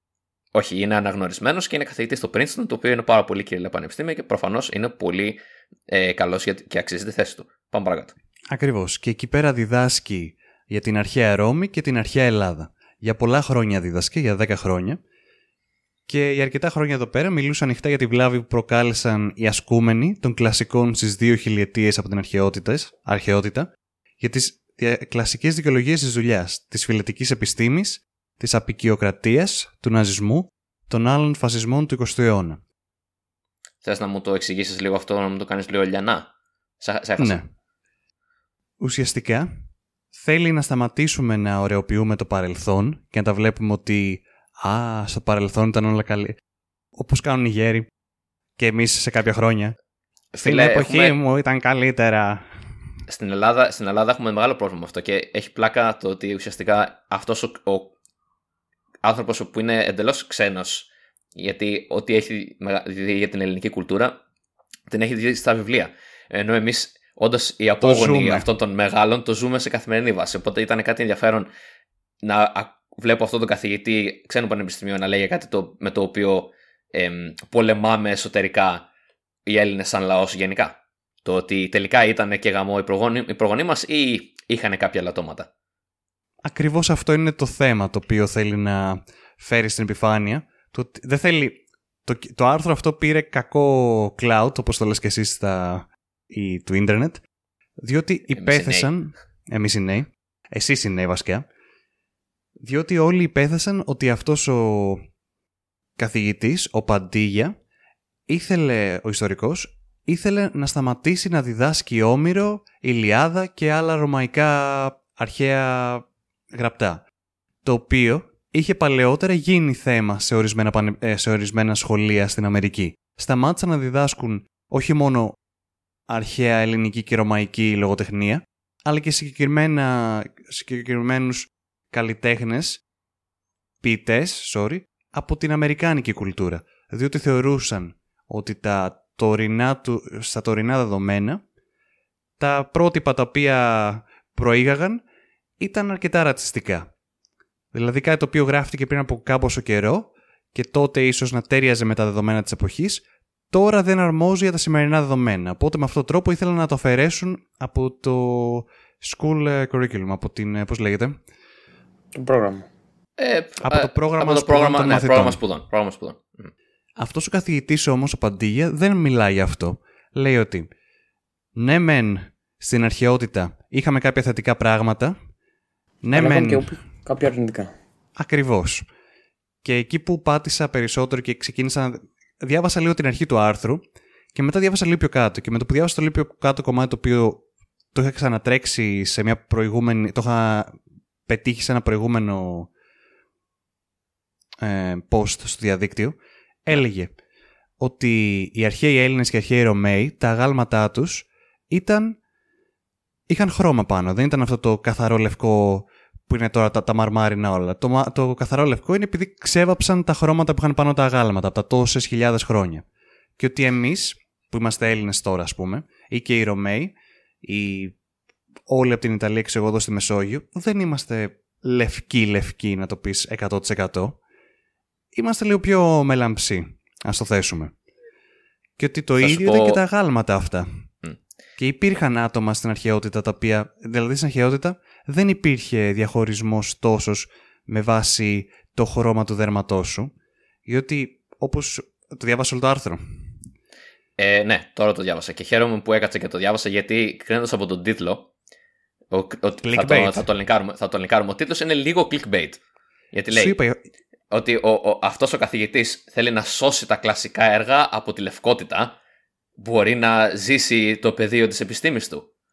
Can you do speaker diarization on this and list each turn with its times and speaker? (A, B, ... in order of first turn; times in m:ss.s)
0:00.5-0:08.1 A
0:08.5-0:15.0 B
0:16.1-0:32.6 B
0:33.8-0:36.3 A
0:36.8-0:37.4 A
0:37.2-0:37.4 B
0:38.8-0:39.6 B
0:40.1-0:46.4 B
0:46.9-0:47.9 B
0:48.6-0:49.8 B
0:50.3-0:51.2 A
0:50.4-0:52.5 B
0:53.1-0:57.9 A
0:59.0-1:04.2 A
1:04.9-1:11.5 A
1:07.8-1:08.5 B
1:12.2-1:18.9 A
1:19.4-1:25.5 A
1:26.4-1:37.2 B
1:37.8-1:41.4 B
1:38.3-1:38.9 A
1:42.6-1:45.1 B
1:46.0-1:47.5 B
1:48.3-1:57.0 B
1:57.6-2:05.3 B
2:06.1-2:12.8 B
2:13.8-2:21.4 B
2:22.4-2:25.0 B
2:25.6-2:26.9 B
2:27.7-2:41.2 B
2:42.1-2:42.7 C
2:43.2-2:46.5 A
2:43.6-2:45.4 B
2:47.0-2:50.7 B
2:51.6-2:55.1 B
2:56.0-2:56.7 B
2:56.1-2:57.7 C
2:58.2-2:58.8 B
2:59.6-3:03.8 B
3:04.3-3:12.7 B
3:14.6-3:17.1 B
3:17.8-3:22.2 B
3:23.3-3:32.8 B
3:33.4-3:37.9 B
3:38.7-3:44.2 B
3:45.1-3:47.7 B
3:48.8-3:50.8 B
3:49.2-3:49.8 A
3:51.6-4:00.1 B
4:00.6-4:03.0 B
4:04.2-4:08.3 A
4:09.1-4:12.6 A
4:09.6-4:10.2 B
4:13.1-4:13.5 A
4:13.3-4:13.8 B
4:14.3-4:18.9 A
4:19.6-4:22.3 A